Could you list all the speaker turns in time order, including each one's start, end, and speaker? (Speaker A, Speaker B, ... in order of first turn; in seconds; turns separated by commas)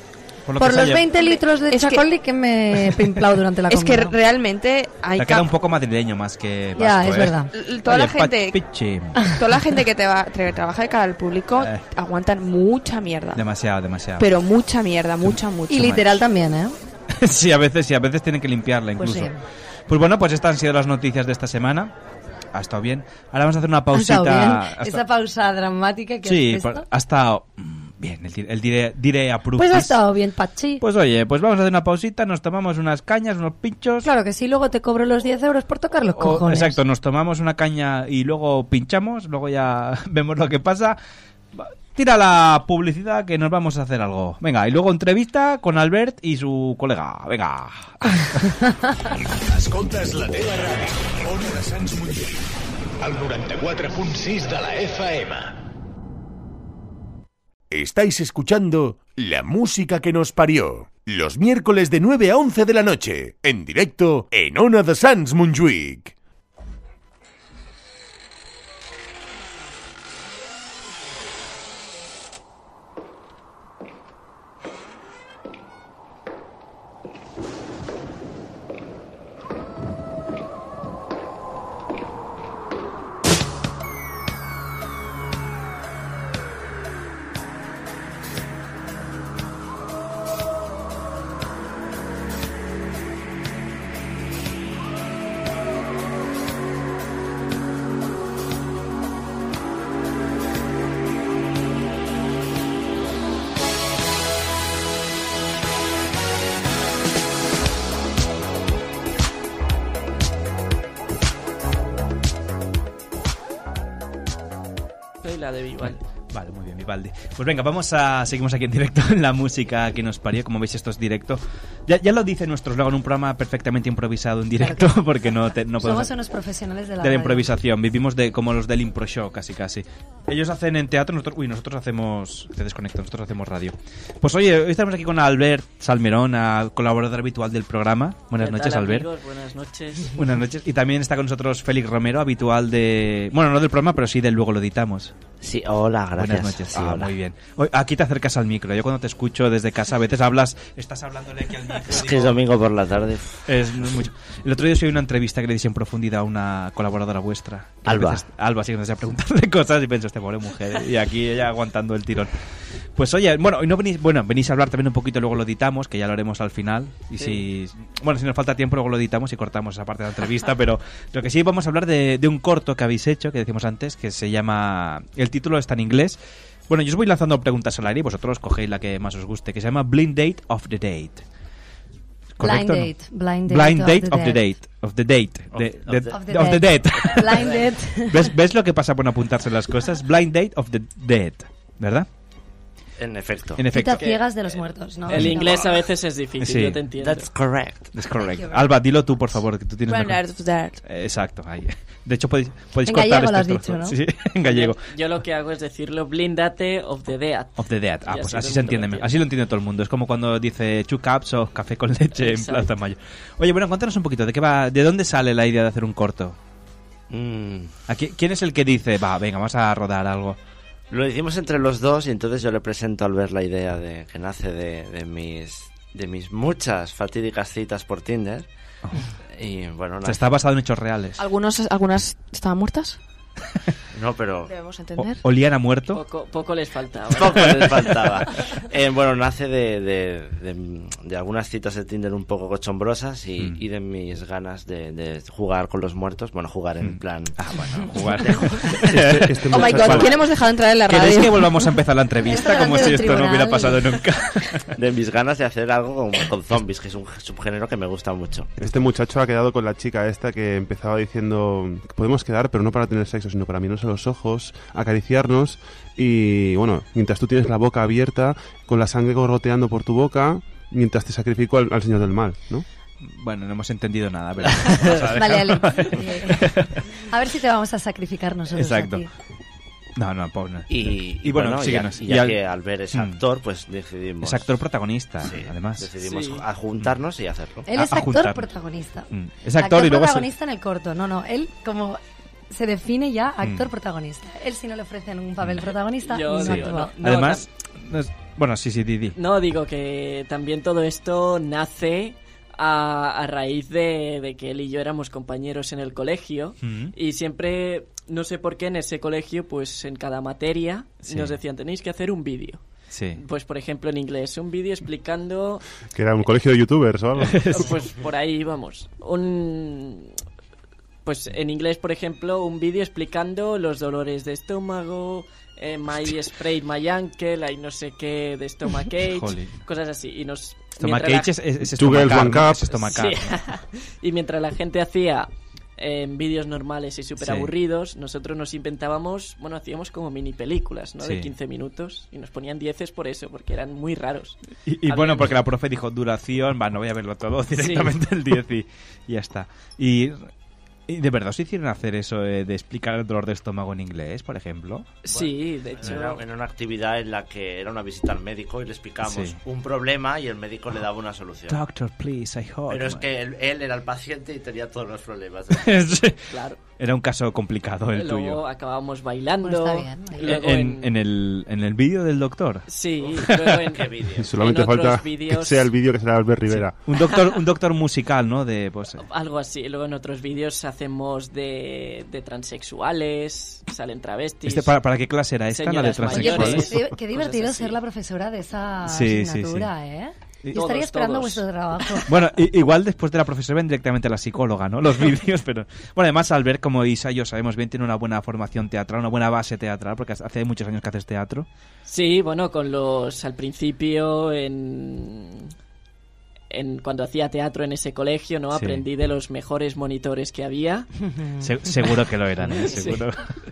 Speaker A: 0.5-1.1, Speaker B: 0.6-4.1, Speaker C: 1.2-2.0, Speaker C: 3.7-5.5, Speaker A: 5.2-9.3, Speaker B: 6.8-7.5, Speaker C: 7.5-8.6, Speaker C: 9.4-13.4, Speaker A: 11.6-11.8, Speaker A: 13.3-14.3, Speaker C: 14.2-16.0, Speaker A: 15.2-16.0, Speaker B: 15.7-16.8, Speaker A: 17.1-19.3, Speaker B: 19.0-19.4, Speaker A: 19.9-21.9, Speaker A: 22.5-25.0, Speaker B: 23.9-26.9, Speaker A: 26.2-30.0, Speaker B: 29.6-30.8, Speaker A: 30.8-34.1, Speaker B: 34.0-36.8, Speaker A: 36.2-41.0, Speaker A: 41.5-48.8, Speaker D: 49.5-52.4, Speaker D: 53.0-55.5, Speaker D: 57.7-66.1, Speaker E: 115.2-116.0, Speaker A: 115.8-126.1, Speaker B: 124.6-125.0, Speaker B: 125.8-127.5, Speaker A: 127.0-139.1, Speaker E: 138.4-140.2, Speaker A: 140.2-145.1, Speaker F: 145.4-147.1, Speaker A: 146.2-152.4, Speaker F: 151.9-153.4, Speaker A: 153.5-162.3, Speaker F: 157.8-158.2, Speaker A: 163.0-176.2, Speaker E: 167.2-167.4, Speaker A: 176.7-181.2, Speaker A: 182.4-182.9, Speaker B: 182.4-184.4, Speaker A: 183.5-192.1, Speaker F: 185.5-186.3, Speaker B: 186.1-188.3, Speaker F: 187.0-187.7, Speaker F: 193.0-193.6, Speaker A: 193.6-194.1, Speaker B: 193.7-195.7, Speaker E: 195.1-197.3, Speaker A: 195.1-195.5, Speaker A: 196.4-196.8, Speaker F: 197.0-197.9, Speaker A: 197.9-200.2, Speaker C: 199.9-200.8, Speaker A: 200.8-204.8, Speaker B: 202.8-204.0, Speaker E: 204.4-209.1, Speaker A: 207.6-216.4, Speaker E: 212.2-212.7, Speaker F: 217.1-217.7, Speaker A: 217.9-220.4, Speaker F: 220.9-228.5, Speaker F: 229.4-230.2, Speaker A: 230.0-231.2, Speaker C: 231.2-233.0, Speaker F: 233.9-234.5, Speaker C: 234.5-235.2, Speaker A: 235.0-236.0, Speaker E: 235.9-237.6, Speaker F: 237.1-247.4, Speaker A: 246.8-250.2, Speaker G: 248.8-250.2, Speaker C: 249.5-251.7, Speaker A: 250.9-254.7, Speaker B: 252.2-253.8, Speaker F: 254.8-258.5, Speaker G: 258.6-272.7, Speaker A: 273.0-276.8, Speaker B: 274.8-276.4, Speaker B: 277.1-279.1, Speaker A: 278.5-279.1, Speaker A: 280.0-282.4, Speaker F: 280.7-284.5, Speaker A: 282.9-283.2, Speaker A: 284.2-285.9, Speaker F: 285.2-287.7, Speaker E: 286.0-286.4, Speaker B: 287.7-292.0, Speaker A: 287.7-288.5, Speaker A: 289.1-290.3, Speaker B: 292.5-296.9, Speaker A: 293.4-293.7, Speaker A: 295.4-295.7, Speaker E: 296.0-297.5, Speaker A: 296.3-299.2, Speaker E: 299.2-312.6, Speaker A: 306.6-306.9, Speaker A: 311.0-311.4, Speaker A: 312.9-313.2, Speaker E: 313.2-315.6, Speaker G: 315.9-317.7, Speaker A: 317.2-317.7, Speaker E: 317.5-320.1, Speaker E: 321.1-331.3, Speaker A: 329.0-329.6, Speaker A: 330.8-333.3, Speaker G: 331.7-332.9, Speaker E: 332.9-345.4, Speaker A: 337.2-337.5, Speaker A: 341.0-341.3, Speaker A: 344.6-350.3, Speaker E: 347.6-347.9, Speaker A: 350.9-354.9, Speaker E: 355.0-356.2, Speaker F: 355.1-361.6, Speaker A: 359.1-359.4, Speaker A: 361.5-363.1, Speaker F: 362.7-365.9, Speaker A: 365.5-366.2, Speaker E: 366.3-366.6, Speaker A: 366.8-368.4, Speaker E: 367.9-370.9, Speaker B: 369.4-370.3, Speaker A: 370.2-373.8, Speaker E: 372.7-375.7, Speaker F: 373.0-374.3, Speaker G: 374.2-376.8, Speaker A: 376.5-379.0, Speaker E: 379.0-384.7, Speaker A: 384.4-386.8, Speaker E: 385.5-387.8, Speaker B: 386.1-392.1, Speaker A: 388.9-389.7, Speaker E: 390.6-392.0, Speaker A: 392.1-401.5, Speaker E: 401.9-405.5, Speaker E: 406.5-410.9, Speaker A: 408.5-408.8, Speaker B: 411.0-411.4, Speaker A: 411.4-413.3, Speaker E: 412.6-413.0